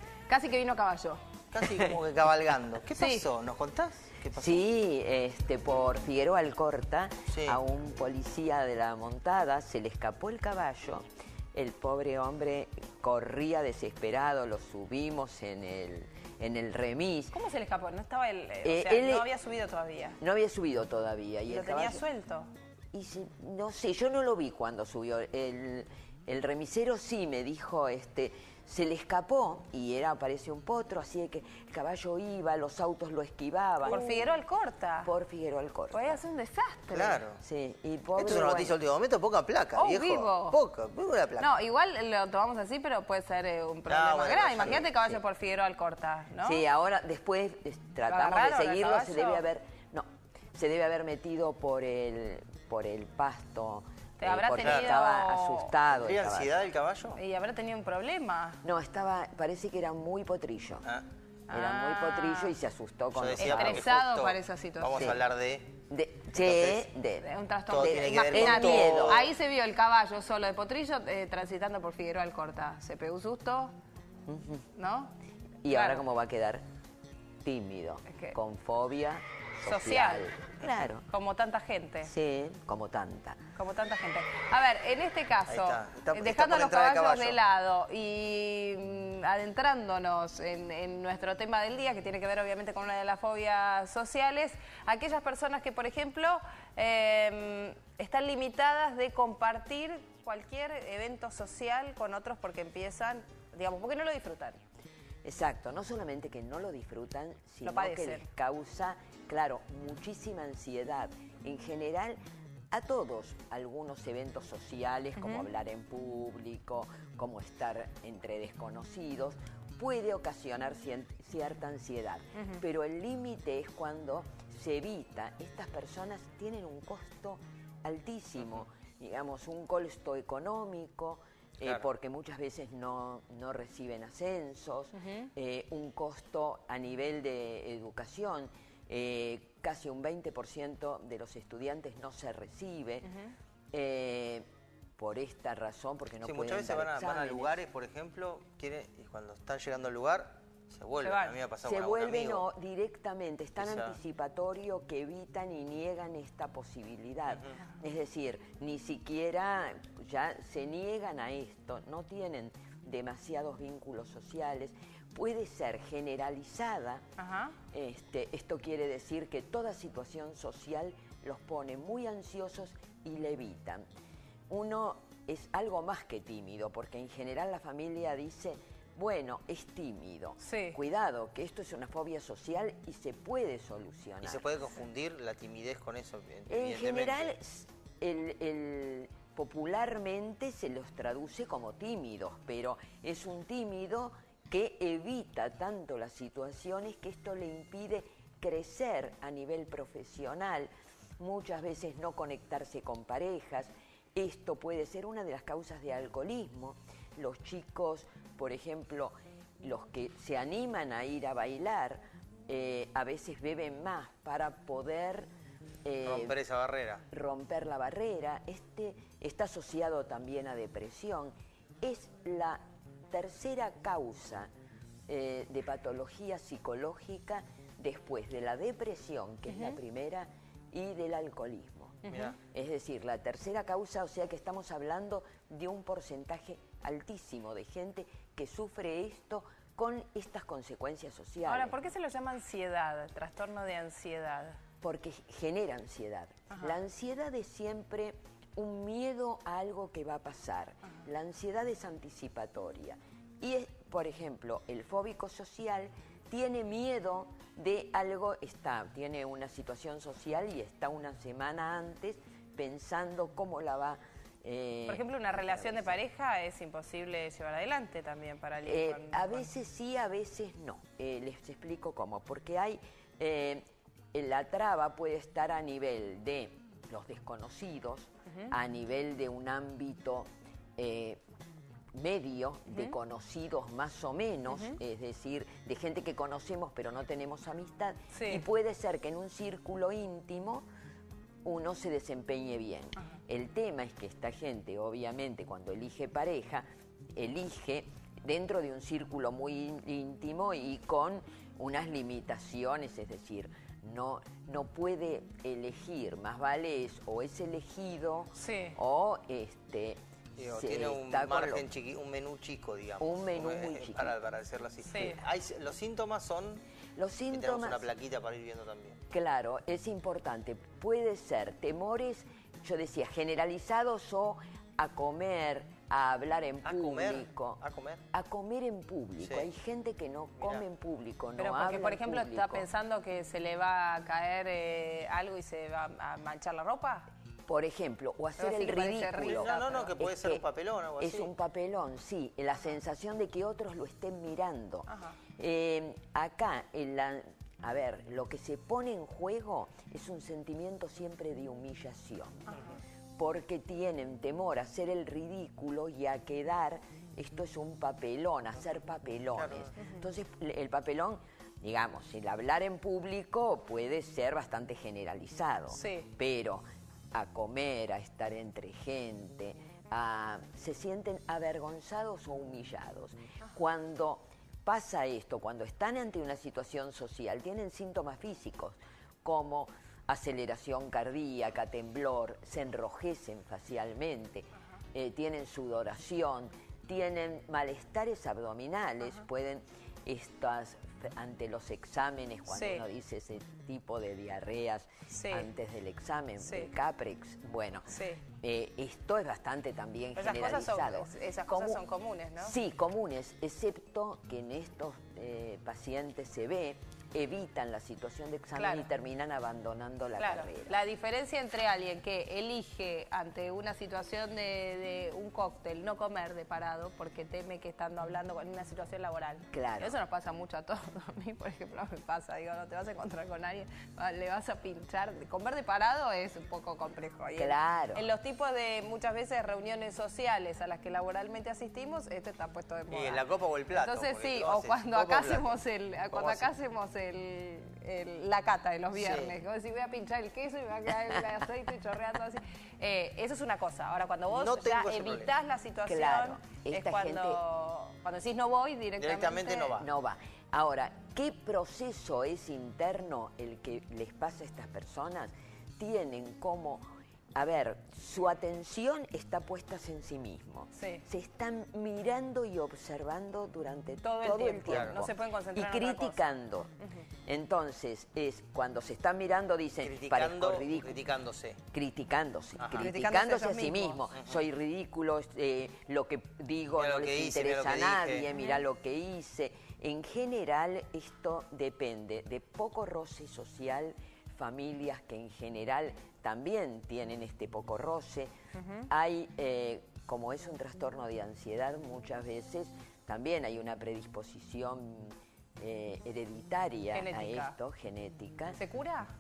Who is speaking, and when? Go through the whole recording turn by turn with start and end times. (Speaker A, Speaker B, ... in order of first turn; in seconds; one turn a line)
Speaker A: 0.3-1.2
Speaker B: 1.5-4.6
Speaker A: 2.9-3.3
Speaker C: 4.3-17.4
Speaker B: 7.3-7.6
Speaker A: 17.3-20.2
Speaker C: 18.6-19.3
Speaker C: 20.2-22.0
Speaker A: 21.5-22.5
Speaker C: 22.9-34.0
Speaker B: 33.8-34.2
Speaker A: 33.9-35.1
Speaker C: 35.0-36.2
Speaker A: 35.9-37.2
Speaker B: 36.9-37.4
Speaker C: 37.4-38.8
Speaker B: 38.2-41.5
Speaker A: 39.8-40.6
Speaker A: 41.4-46.6
Speaker B: 43.9-44.9
Speaker C: 44.8-45.2
Speaker C: 46.4-56.6
Speaker A: 48.1-49.5
Speaker A: 54.2-55.8
Speaker B: 54.6-54.9
Speaker B: 55.9-57.2
Speaker A: 57.1-58.6
Speaker C: 58.6-60.9
Speaker A: 61.5-62.6
Speaker C: 61.5-63.9
Speaker B: 63.1-65.7
Speaker A: 63.4-65.1
Speaker C: 65.9-69.3
Speaker B: 66.4-66.9
Speaker A: 67.2-73.7
Speaker B: 67.7-69.3
Speaker C: 74.3-74.7
Speaker A: 74.7-75.1
Speaker C: 75.6-76.6
Speaker A: 75.7-76.0
Speaker C: 77.4-81.1
Speaker A: 78.1-78.3
Speaker A: 79.6-80.3
Speaker A: 81.1-82.1
Speaker C: 82.1-83.4
Speaker A: 83.5-104.6
Speaker B: 85.5-87.4
Speaker C: 105.2-112.2
Speaker A: 107.7-108.3
Speaker C: 112.7-143.1
Speaker A: 115.2-115.5
Speaker A: 122.3-122.6
Speaker A: 135.0-135.3
Speaker A: 143.0-143.3
Speaker C: 143.7-144.5
Speaker C: 145.0-147.6
Speaker B: 146.2-152.5
Speaker A: 151.0-151.4
Speaker C: 151.6-167.0
Speaker B: 153.6-154.0
Speaker B: 157.3-157.5
Speaker A: 167.2-167.6
Speaker C: 167.7-173.8
Speaker C: 174.5-184.4
Speaker A: 180.4-180.8
Speaker B: 184.2-187.3
Speaker C: 186.5-215.3
Speaker C: 215.8-216.4
Speaker B: 216.0-217.0
Speaker C: 217.1-224.5
Speaker C: 225.1-241.8
Speaker A: 229.5-229.8
Speaker A: 232.1-232.3
Speaker B: 232.1-232.3
Speaker A: 241.4-244.6
Speaker C: 244.8-265.9
Speaker A: 246.5-246.8
Speaker A: 264.9-269.5
Speaker C: 268.6-281.2
Speaker A: 278.3-278.6
Speaker C: 281.9-290.7
Speaker A: 282.7-282.9
Speaker A: 284.5-284.8
Speaker A: 288.1-288.4
Speaker C: 291.4-296.6
Speaker C: 297.1-310.0
Speaker A: 308.4-308.8
Speaker B: 310.4-316.6
Speaker C: 310.5-311.7
Speaker C: 313.0-314.2
Speaker A: 314.8-315.2
Speaker C: 317.0-317.9
Speaker B: 317.3-319.0
Speaker C: 319.1-327.6
Speaker B: 326.6-328.0
Speaker C: 328.1-332.7
Speaker B: 329.2-329.5
Speaker B: 330.4-330.6
Speaker A: 331.4-337.1
Speaker C: 337.5-340.4
Speaker A: 338.4-339.9
Speaker B: 339.2-341.3
Speaker C: 341.0-352.6
Speaker A: 344.9-345.2
Speaker A: 352.5-352.7
Speaker C: 353.2-401.8
Speaker B: 359.4-359.7
Speaker A: 359.8-360.0
Speaker A: 365.7-366.1
Speaker A: 392.5-392.9
Speaker A: 395.1-395.5
Speaker A: 396.4-396.7
Speaker A: 397.9-398.2
Speaker A: 400.2-402.6
Speaker C: 402.4-410.8
Speaker A: 408.6-408.9
Speaker A: 410.2-449.8
Speaker C: 419.5-419.9
Speaker C: 427.4-428.1
Speaker B: 432.9-435.6
Speaker B: 436.1-436.5
Speaker B: 438.9-439.4
Speaker B: 444.3-445.3
Speaker C: 445.9-447.4
Speaker B: 449.0-449.9
Speaker C: 449.8-456.8
Speaker C: 457.4-466.7
Speaker A: 460.8-461.0
Speaker A: 464.0-467.1
Speaker B: 464.6-465.1
Speaker C: 467.3-471.0
Speaker B: 469.8-471.6
Speaker C: 471.7-488.3
Speaker B: 472.6-472.9
Speaker A: 472.7-474.1
Speaker B: 474.1-474.4
Speaker B: 476.8-478.3
Speaker A: 478.3-478.6
Speaker A: 488.5-488.9
Speaker C: 488.9-498.6
Speaker A: 496.9-497.6
Speaker A: 498.6-499.1